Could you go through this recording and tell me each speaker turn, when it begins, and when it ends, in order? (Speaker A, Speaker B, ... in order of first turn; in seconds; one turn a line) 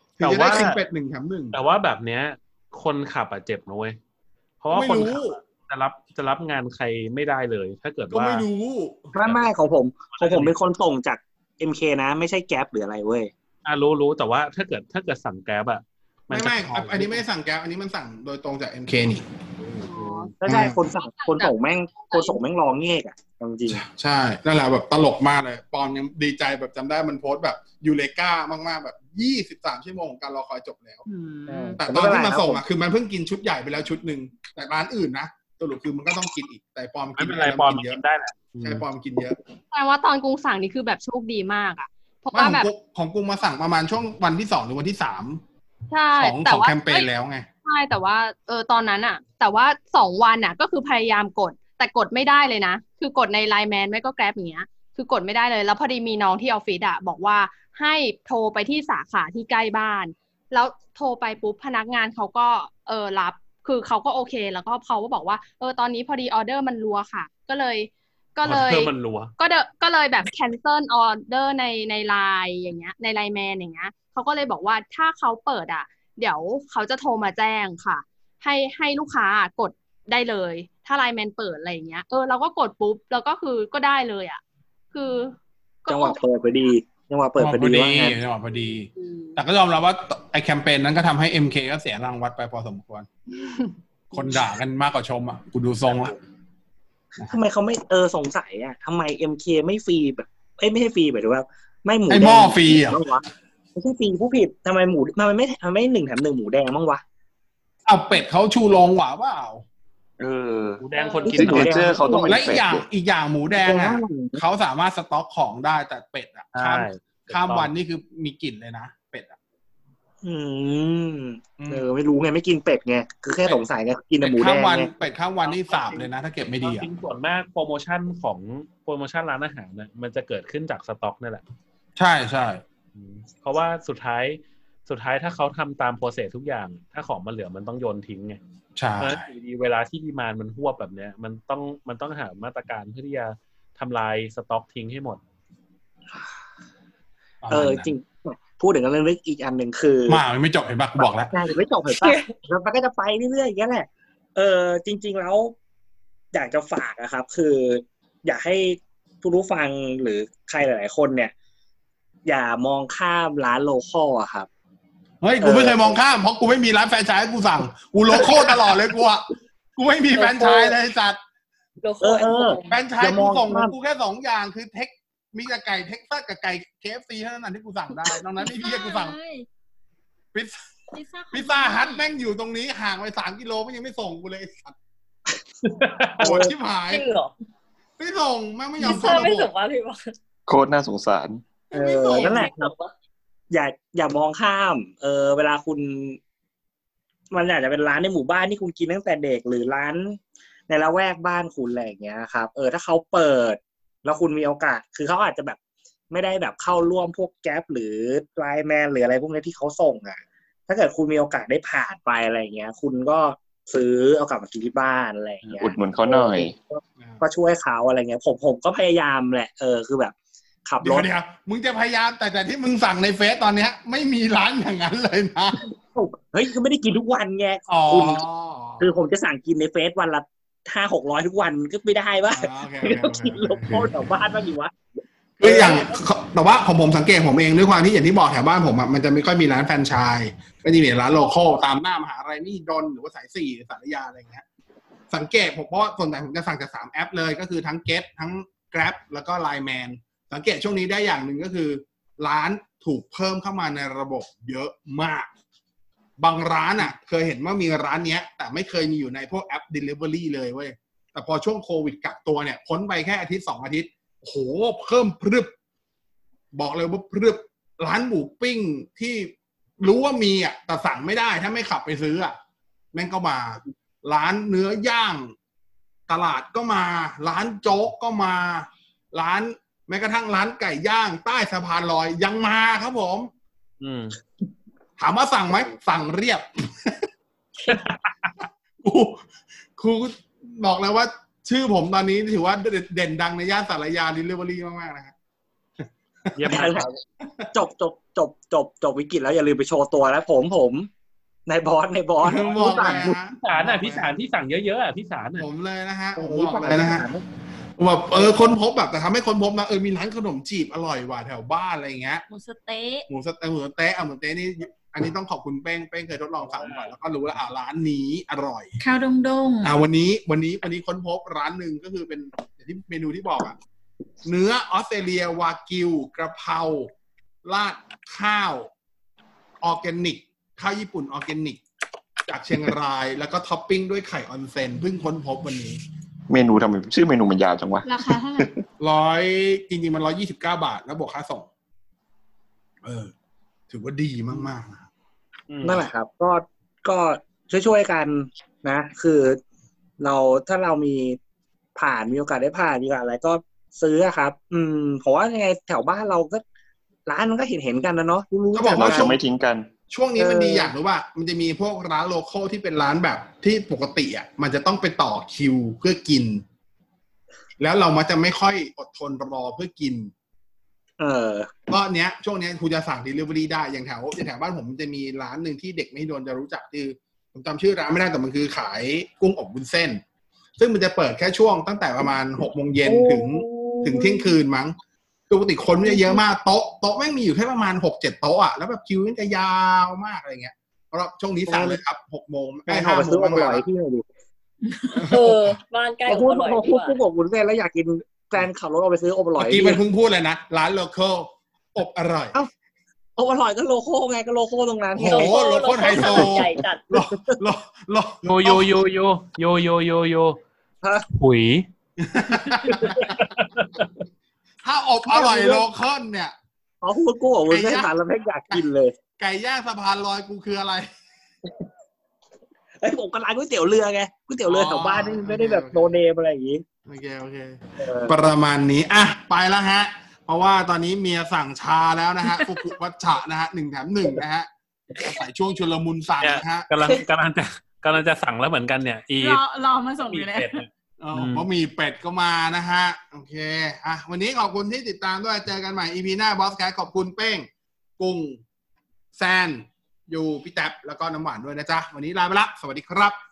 Speaker A: 0.2-1.6
Speaker B: 0.2-0.8
Speaker B: 1.5-4.0
Speaker B: 4.6-8.5
Speaker A: 4.7-5.4
Speaker A: 8.1-9.1
Speaker C: 9.1-13.3
Speaker B: 10.2-10.5
Speaker B: 13.7-17.2
Speaker A: 16.3-19.2
Speaker B: 19.6-20.3
Speaker D: 19.9-20.3
Speaker C: 20.4-23.8
Speaker A: 20.4-20.8
Speaker D: 21.2-22.4
Speaker A: 23.7-31.0
Speaker B: 31.1-31.8
Speaker C: 31.5-32.6
Speaker A: 31.8-38.0
Speaker B: 37.1-38.9
Speaker A: 38.6-39.4
Speaker D: 39.7-42.7
Speaker A: 42.3-45.4
Speaker D: 45.9-47.1
Speaker A: 46.1-47.5
Speaker D: 47.6-84.4
Speaker B: 68.4-69.3
Speaker D: 84.9-86.2
Speaker C: 85.9-88.2
Speaker A: 87.4-93.1
Speaker D: 89.0-89.3
Speaker A: 94.1-96.2
Speaker C: 97.3-107.0
Speaker A: 102.1-103.0
Speaker A: 107.9-109.6
Speaker E: 110.2-112.8
Speaker B: 110.8-112.0
Speaker D: 111.0-111.3
Speaker C: 111.2-112.6
Speaker A: 112.2-119.4
Speaker C: 113.6-114.4
Speaker B: 116.5-117.7
Speaker C: 120.2-124.9
Speaker A: 121.6-121.9
Speaker A: 124.2-126.9
Speaker B: 125.5-126.1
Speaker B: 126.6-131.4
Speaker A: 132.0-132.6
Speaker B: 132.9-138.4
Speaker A: 138.8-139.2
Speaker B: 139.0-145.2
Speaker A: 147.4-147.9
Speaker C: 147.5-150.2
Speaker A: 150.1-151.3
Speaker C: 151.0-155.5
Speaker F: 152.0-152.3
Speaker C: 156.3-161.3
Speaker C: 162.3-164.5
Speaker A: 165.2-171.2
Speaker C: 165.4-166.0
Speaker F: 170.2-170.8
Speaker F: 171.8-172.7
Speaker C: 172.0-173.7
Speaker A: 172.7-179.2
Speaker G: 178.4-179.5
Speaker G: 180.9-182.1
Speaker A: 181.3-184.8
Speaker B: 185.7-186.3
Speaker A: 186.2-187.1
Speaker C: 186.2-186.5
Speaker F: 186.9-187.3
Speaker A: 188.0-189.5
Speaker F: 188.8-190.1
Speaker E: 190.5-191.4
Speaker A: 191.7-192.5
Speaker C: 191.7-192.7
Speaker F: 192.0-192.9
Speaker C: 193.5-196.2
Speaker C: 197.3-205.6
Speaker C: 206.1-220.2
Speaker E: 215.6-216.5
Speaker C: 220.7-221.1
Speaker A: 220.8-225.7
Speaker C: 225.9-228.2
Speaker A: 227.7-228.9
Speaker C: 228.8-234.8
Speaker A: 232.3-234.0
Speaker A: 235.4-244.4
Speaker C: 235.4-236.0
Speaker A: 245.1-255.3
Speaker A: 256.2-265.5
Speaker A: 266.5-272.4
Speaker A: 272.9-275.3
Speaker A: 276.1-283.3
Speaker B: 283.8-284.2
Speaker A: 285.0-287.0
Speaker A: 288.8-289.2
Speaker A: 289.8-295.1
Speaker A: 295.8-297.5
Speaker B: 296.4-296.9
Speaker C: 296.5-297.0
Speaker C: 297.5-300.9
Speaker C: 301.5-303.1
Speaker A: 302.2-304.2
Speaker B: 302.8-305.4
Speaker A: 305.4-307.1
Speaker C: 306.2-307.2
Speaker A: 307.8-312.2
Speaker G: 312.3-313.1
Speaker A: 313.1-318.8
Speaker B: 316.4-316.9
Speaker G: 318.8-319.7
Speaker A: 319.6-323.6
Speaker A: 324.2-326.9
Speaker A: 327.4-328.7
Speaker A: 329.6-331.6
Speaker A: 332.3-335.8
Speaker E: 336.3-338.5
Speaker G: 337.8-338.5
Speaker A: 338.8-341.5
Speaker A: 342.8-343.1
Speaker A: 343.7-344.9
Speaker B: 345.5-345.9
Speaker C: 345.6-349.4
Speaker C: 350.0-351.2
Speaker C: 351.8-356.4
Speaker C: 357.1-359.2
Speaker A: 358.5-359.2
Speaker E: 358.7-359.7
Speaker A: 359.9-366.4
Speaker C: 360.2-360.7
Speaker A: 367.6-370.1
Speaker C: 371.0-371.5
Speaker A: 371.7-380.0
Speaker A: 380.6-384.8
Speaker F: 383.1-383.7
Speaker A: 385.3-393.6
Speaker C: 391.5-391.8
Speaker C: 392.7-394.0
Speaker A: 394.9-395.6
Speaker F: 395.1-397.0
Speaker C: 396.1-399.8
Speaker A: 399.4-402.4
Speaker C: 403.2-406.3
Speaker A: 404.9-408.8
Speaker F: 405.1-406.9
Speaker B: 408.2-410.4
Speaker B: 411.1-411.7
Speaker A: 412.0-413.3
Speaker B: 412.3-414.0
Speaker C: 412.9-413.1
Speaker A: 414.6-416.4
Speaker C: 415.1-415.7
Speaker C: 416.8-418.9
Speaker A: 417.5-417.9
Speaker A: 419.2-420.9
Speaker C: 422.8-426.6
Speaker A: 424.4-426.0
Speaker A: 426.9-434.5
Speaker C: 427.8-428.2
Speaker A: 435.0-436.7
Speaker B: 436.2-439.4
Speaker G: 439.2-440.6
Speaker B: 440.0-441.5
Speaker A: 441.0-448.4
Speaker A: 449.1-453.2